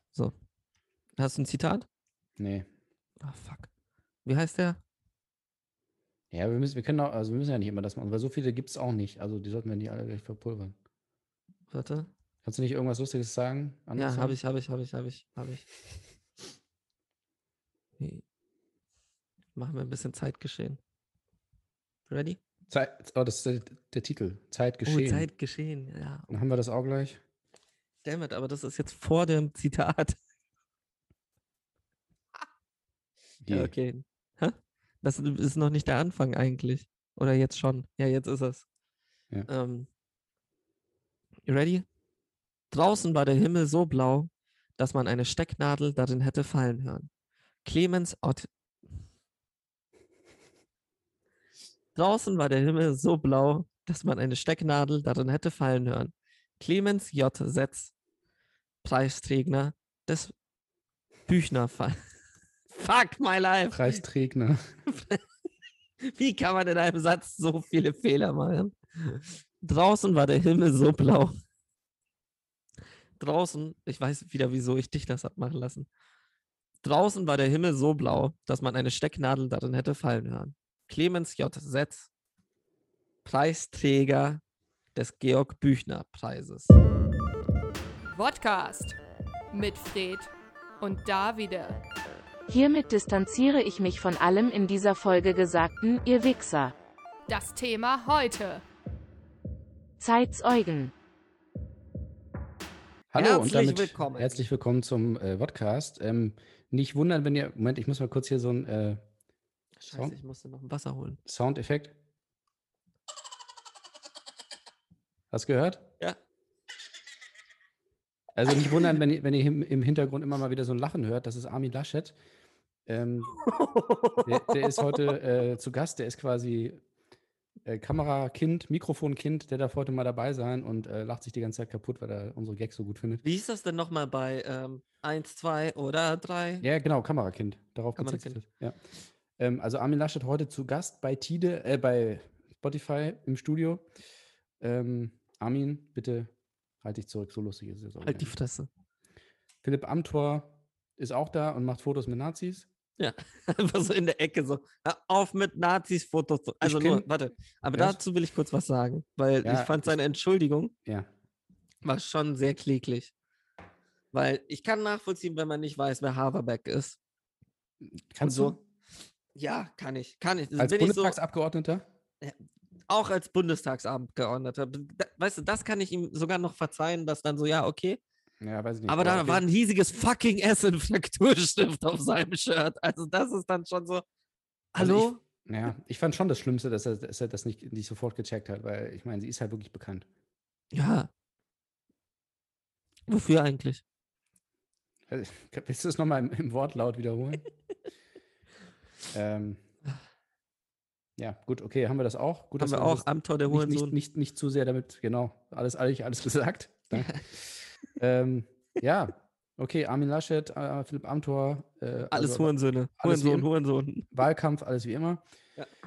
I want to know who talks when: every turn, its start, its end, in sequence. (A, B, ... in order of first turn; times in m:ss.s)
0:01.2-0:01.8 A
0:02.4-0:02.7 B
0:03.2-0:03.7 A
0:04.2-0:04.8 A
0:06.3-0:10.7 B
0:11.7-0:12.1 A
0:12.4-0:14.4 B
0:14.0-0:15.6 A
0:19.6-0:20.8 A
0:22.1-0:22.4 A
0:22.7-0:25.3 B
0:24.8-0:26.3 A
0:26.3-0:27.2 B
0:28.0-0:30.2 A
0:33.4-0:33.7 B
0:33.5-0:38.6 A
0:39.5-0:39.9 A
0:41.4-0:41.8 A
0:42.7-0:47.1 A
0:47.6-0:48.5 A
0:51.9-0:57.9 A
0:58.8-1:00.3 A
1:01.3-1:02.0 A
1:02.7-1:04.0 A
1:03.7-1:04.6 B
1:04.9-1:05.2 A
1:06.0-1:11.4 A
1:13.2-1:15.9 A
1:16.8-1:22.1 A
1:23.2-1:24.4 A
1:24.9-1:26.8 A
1:28.1-1:29.0 C
1:29.5-1:31.8 C
1:32.5-1:36.7 D
1:37.3-1:38.6 C
1:40.0-1:40.9 D
1:43.1-1:49.0 B
1:43.2-1:44.5 A
1:49.8-1:51.2 A
1:49.9-1:50.2 B
1:51.2-1:52.0 B
1:55.3-1:55.9 B
1:58.3-2:02.2 B
2:02.8-2:03.4 B
2:03.4-2:05.1 A
2:04.2-2:06.8 B
2:07.6-2:13.2 B
2:13.2-2:16.6 A
2:16.6-2:18.8 B
2:18.0-2:18.4 A
2:19.4-2:23.8 B
2:24.6-2:26.3 B
2:26.8-2:28.3 B
2:28.0-2:28.7 A
2:29.6-2:32.7 B
2:33.0-2:40.7 A
2:36.6-2:37.0 B
2:37.7-2:38.0 B
2:39.4-2:40.0 B
2:41.8-2:43.1 A
2:44.1-2:47.0 A
2:47.8-2:48.6 B
2:48.2-2:48.6 A
2:49.3-2:51.2 A
2:50.6-2:51.8 B
2:52.9-2:58.0 A
2:58.4-2:59.4 B
2:58.9-3:04.0 A
3:04.7-3:05.2 A
3:04.8-3:10.0 B
3:10.7-3:11.1 A
3:13.1-3:13.8 A
3:15.1-3:17.4 B
3:19.1-3:19.6 B
3:21.2-3:33.5 B
3:22.6-3:24.0 A
3:26.9-3:27.2 A
3:32.1-3:34.1 A
3:34.1-3:35.2 B